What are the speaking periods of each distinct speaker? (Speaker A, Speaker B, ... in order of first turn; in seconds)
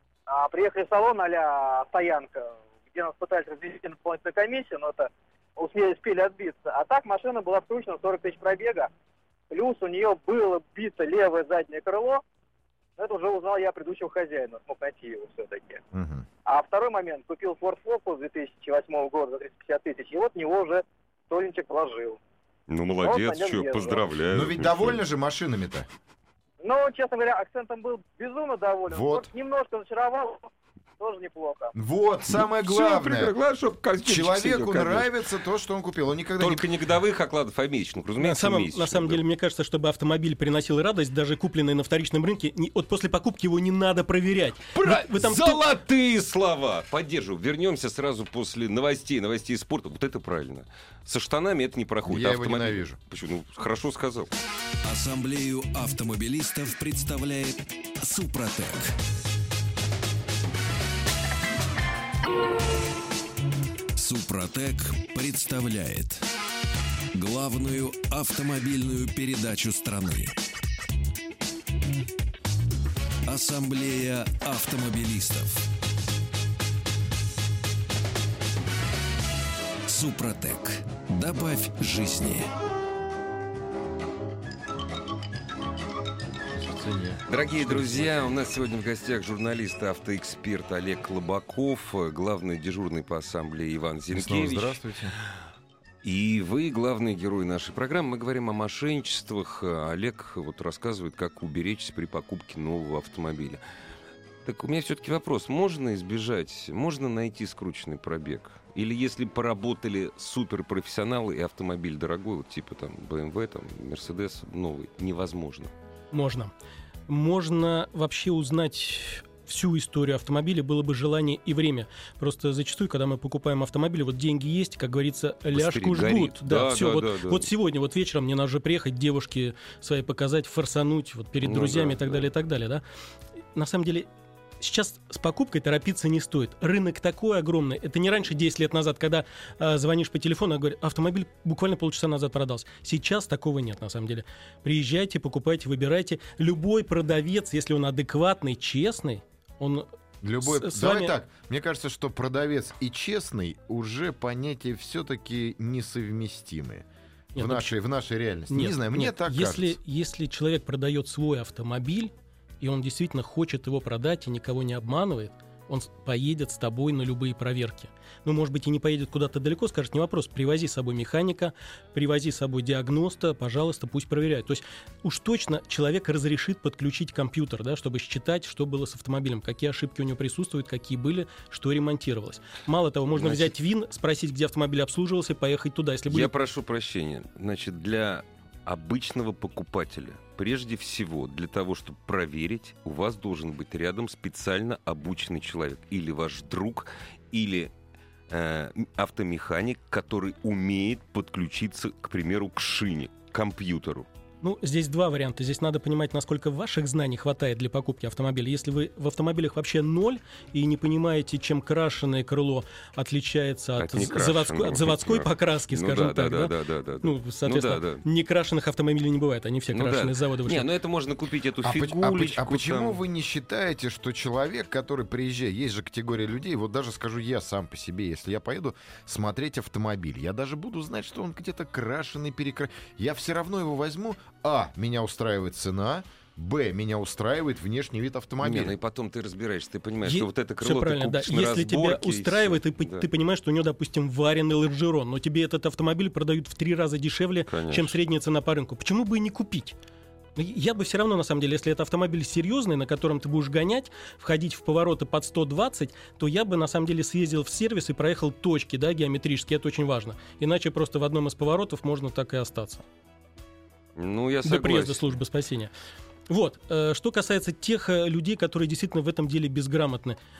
Speaker A: 0.3-8.9, 9.5-12.2, 13.0-15.8, 16.4-22.2, 23.0-24.0, 26.6-30.5, 31.0-31.7
Speaker B: 15.9-16.2, 24.3-25.9, 28.9-29.3, 31.7-33.3, 34.0-36.7, 52.0-53.0, 86.5-88.4, 94.1-95.2, 150.2-156.8, 157.3-159.8, 221.6-238.7
Speaker C: 22.7-25.0, 32.3-35.1, 36.4-39.2, 44.7-54.3, 87.3-94.8, 96.0-103.6, 104.4-115.7, 125.5-127.5, 131.4-132.3, 183.1-183.5, 186.1-197.7, 198.3-204.1, 213.8-218.0, 219.7-223.0, 238.4-243.1, 247.5-247.9, 264.0-265.2
Speaker D: 38.2-45.6, 116.1-116.5, 117.1-132.8, 133.5-134.1, 134.6-149.9, 150.4-151.2, 157.3-157.7, 158.5-186.3, 204.4-220.7, 240.0-249.8, 250.3-262.8, 264.4-265.7, 266.3-270.2
Speaker E: 54.8-58.9, 64.0-66.2, 67.1-70.3, 73.2-75.6, 79.9-82.5